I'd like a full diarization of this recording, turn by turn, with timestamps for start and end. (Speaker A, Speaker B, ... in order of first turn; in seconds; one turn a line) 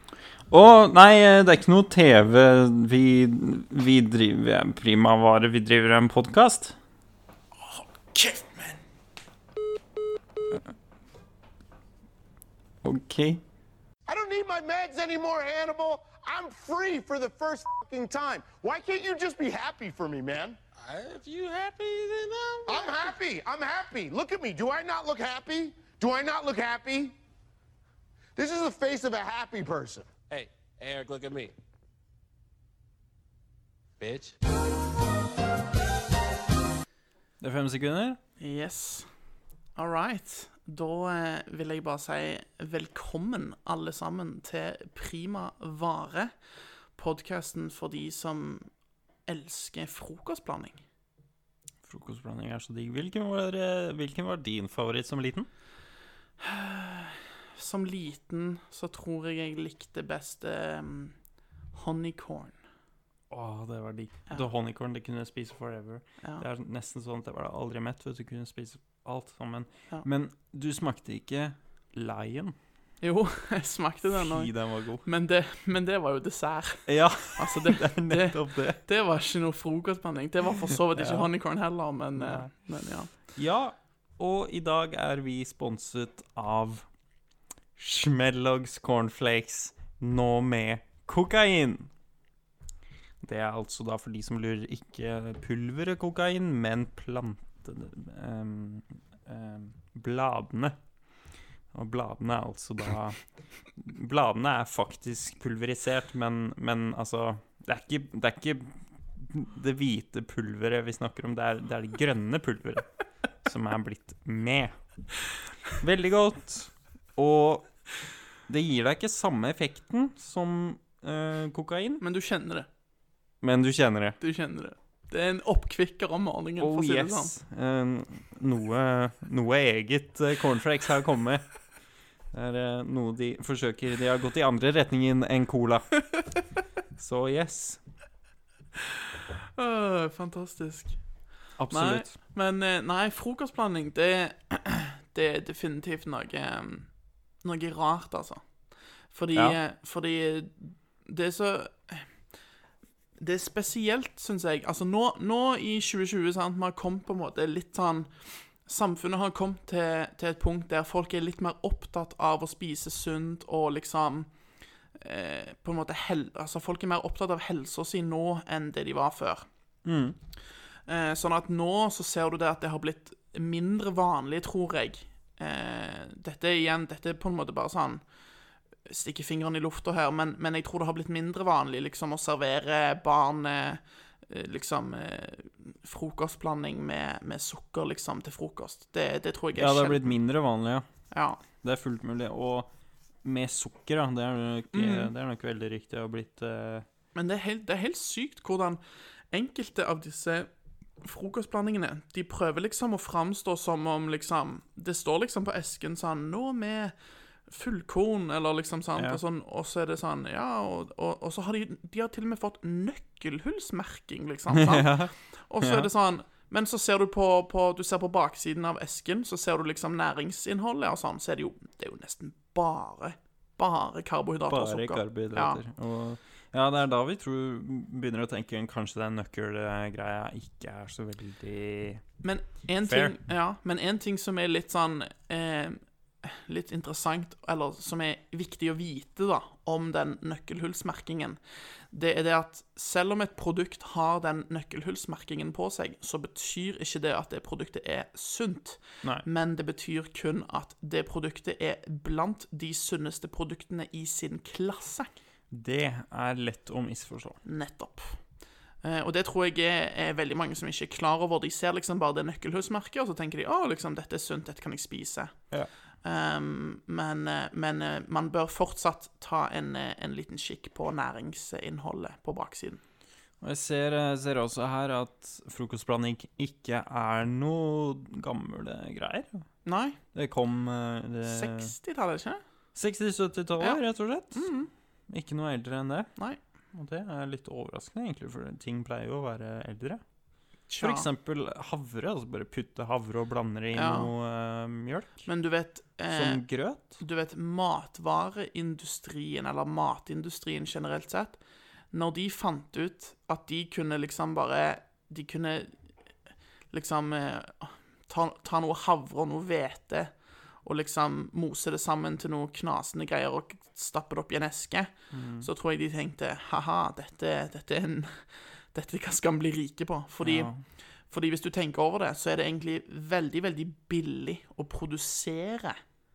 Speaker A: 0.5-6.8
Speaker B: 7.6-8.8
Speaker A: 12.8-13.4
Speaker C: 14.1-20.6
Speaker D: 20.8-22.8
Speaker C: 22.7-27.1
Speaker C: 28.4-30.2
Speaker D: 30.1-31.5
Speaker D: 34.0-34.3
Speaker A: 37.4-38.2
Speaker B: 38.4-39.1
Speaker B: 39.8-48.7
Speaker B: 49.3-50.8
Speaker A: 51.8-55.5
Speaker B: 56.4-61.2
Speaker B: 61.7-62.6
Speaker A: 63.3-72.6
Speaker B: 73.0-83.1
Speaker A: 74.2-75.0
Speaker A: 76.9-78.8
Speaker A: 80.9-81.3
Speaker A: 82.2-86.9
Speaker A: 87.8-91.9
Speaker A: 93.2-100.9
Speaker A: 101.7-115.0
Speaker A: 115.7-117.9
Speaker A: 118.4-122.0
Speaker B: 122.0-122.7
Speaker A: 123.4-124.2
Speaker B: 124.2-127.3
Speaker A: 126.6-136.2
Speaker A: 137.0-137.8
Speaker B: 139.6-152.3
Speaker A: 141.6-142.1
Speaker B: 153.2-169.5
Speaker A: 169.8-170.2
Speaker B: 170.4-178.1
Speaker B: 178.8-190.1
Speaker A: 189.6-190.9
Speaker B: 191.1-191.4
Speaker A: 191.4-196.9
Speaker B: 194.7-195.1
Speaker B: 197.2-200.5
Speaker B: 201.0-225.6
Speaker A: 214.5-215.9
Speaker A: 224.5-232.2
Speaker B: 232.2-255.2
Speaker A: 232.8-233.2
Speaker A: 255.5-257.4
Speaker B: 257.4-272.8
Speaker A: 273.4-279.5
Speaker B: 279.6-280.0
Speaker A: 280.1-281.7
Speaker B: 281.3-282.4
Speaker A: 282.8-284.5
Speaker B: 284.3-284.7
Speaker A: 285.1-286.1
Speaker A: 286.7-290.0
Speaker A: 290.7-295.3
Speaker B: 290.7-291.1
Speaker B: 293.7-294.1
Speaker B: 295.3-305.9
Speaker A: 296.1-297.0
Speaker B: 306.7-325.8
Speaker A: 315.1-315.5
Speaker A: 320.2-320.6